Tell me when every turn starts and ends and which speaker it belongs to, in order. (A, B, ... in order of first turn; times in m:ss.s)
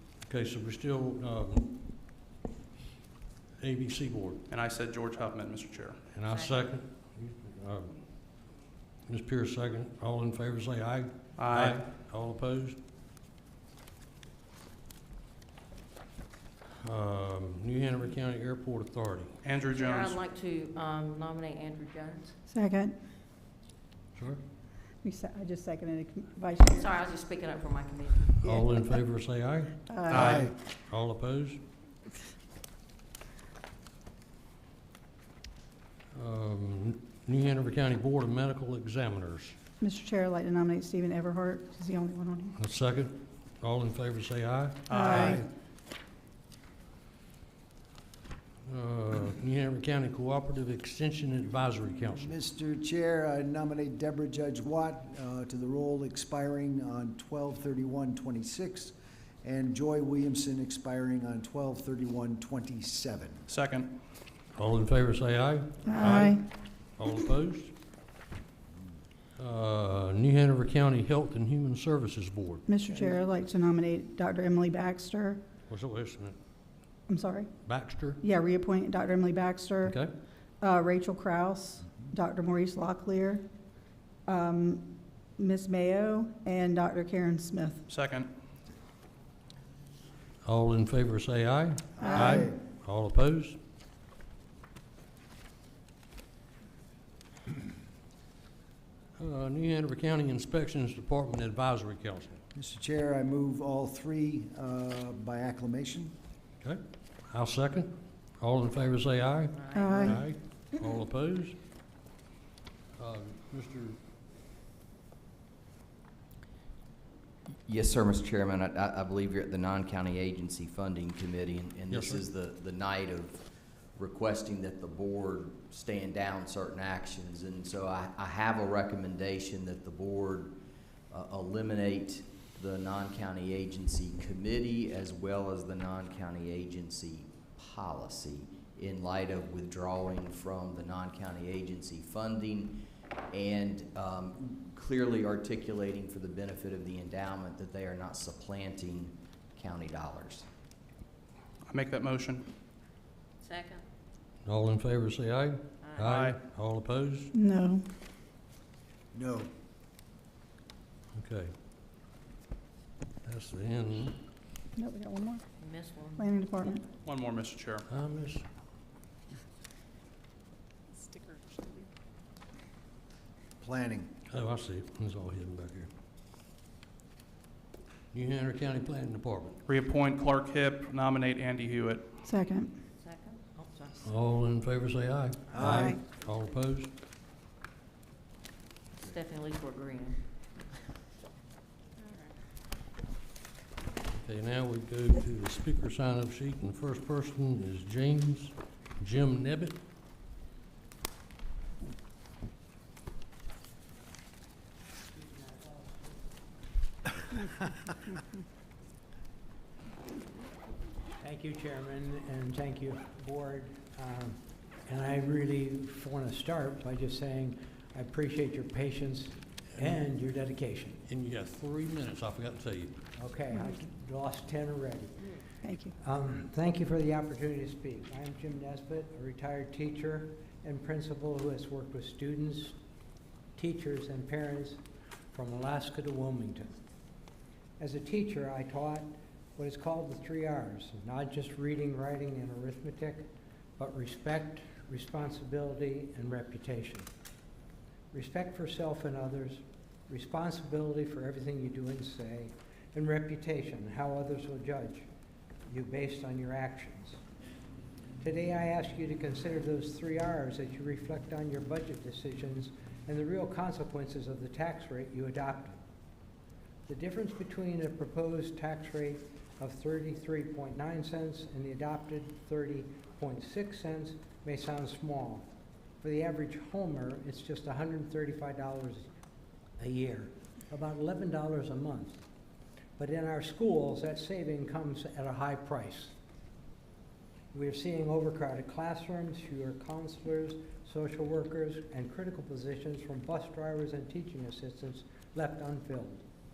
0:00.2-0:01.7 A
0:03.6-0:04.4 A
0:04.5-0:06.0 B
0:06.1-0:08.0 A
0:06.3-0:06.7 C
0:09.1-0:12.8 A
0:11.4-0:11.8 B
0:16.8-0:19.4 A
0:19.4-0:20.2 B
0:19.6-0:22.3 C
0:22.5-0:22.9 D
0:25.0-0:27.0 D
0:26.7-0:28.4 C
0:28.4-0:31.6 A
0:28.4-0:29.0 D
0:29.9-0:30.3 D
0:30.1-0:30.4 B
0:30.1-0:30.5 E
0:36.1-0:39.6 A
0:39.8-0:42.6 D
0:42.6-0:45.0 A
0:44.9-0:45.4 B
0:44.9-0:45.4 D
0:48.7-0:52.3 A
0:52.1-1:03.5 E
1:03.5-1:03.9 B
1:04.5-1:06.4 A
1:05.8-1:06.4 D
1:07.0-1:07.7 A
1:09.4-1:12.6 A
1:12.7-1:15.4 D
1:15.7-1:16.4 A
1:17.1-1:17.5 D
1:17.7-1:18.2 A
1:18.2-1:20.0 D
1:20.6-1:23.4 D
1:24.3-1:27.8 D
1:27.9-1:28.3 B
1:30.4-1:33.6 A
1:32.0-1:32.6 E
1:32.0-1:32.5 D
1:39.2-1:42.4 A
1:42.5-1:46.1 E
1:46.6-1:51.6 A
1:49.5-1:50.2 C
1:49.7-1:50.2 D
1:53.0-1:54.0 A
1:57.6-2:03.4 F
2:01.9-2:02.2 A
2:04.0-2:10.6 F
2:11.1-2:30.4 F
2:31.7-2:32.4 B
2:33.4-2:33.8 C
2:34.4-2:37.3 A
2:35.8-2:36.1 C
2:36.0-2:36.4 B
2:37.3-2:37.8 D
2:39.1-2:39.5 E
2:41.2-2:41.5 A
2:43.2-2:44.2 A
2:44.8-2:45.4 D
2:45.6-2:46.7 C
2:46.2-2:46.8 D
2:47.0-2:47.8 B
2:47.9-2:48.4 A
2:53.6-2:54.1 E
2:54.3-2:55.9 A
2:58.1-2:59.6 A
2:59.7-3:02.1 B
3:02.2-3:02.7 D
3:03.0-3:04.1 C
3:04.0-3:06.9 A
3:05.5-3:05.9 E
3:05.7-3:06.0 D
3:09.0-3:10.2 C
3:14.1-3:19.8 A
3:25.1-3:26.1 G
3:31.2-3:41.0 G
3:39.7-3:40.0 A
3:41.1-3:43.0 A
3:43.2-3:45.2 G
3:43.5-3:43.8 D
3:45.6-3:45.9 D
3:46.0-3:52.8 G
3:53.6-3:56.8 G
3:57.8-4:07.1 G
4:08.1-4:15.1 G
4:15.7-4:17.2 G
4:18.2-4:25.8 G
4:26.9-4:35.5 G
4:36.0-4:39.1 G
4:39.8-4:42.2 G
4:43.0-4:46.1 G
4:47.5-4:56.2 G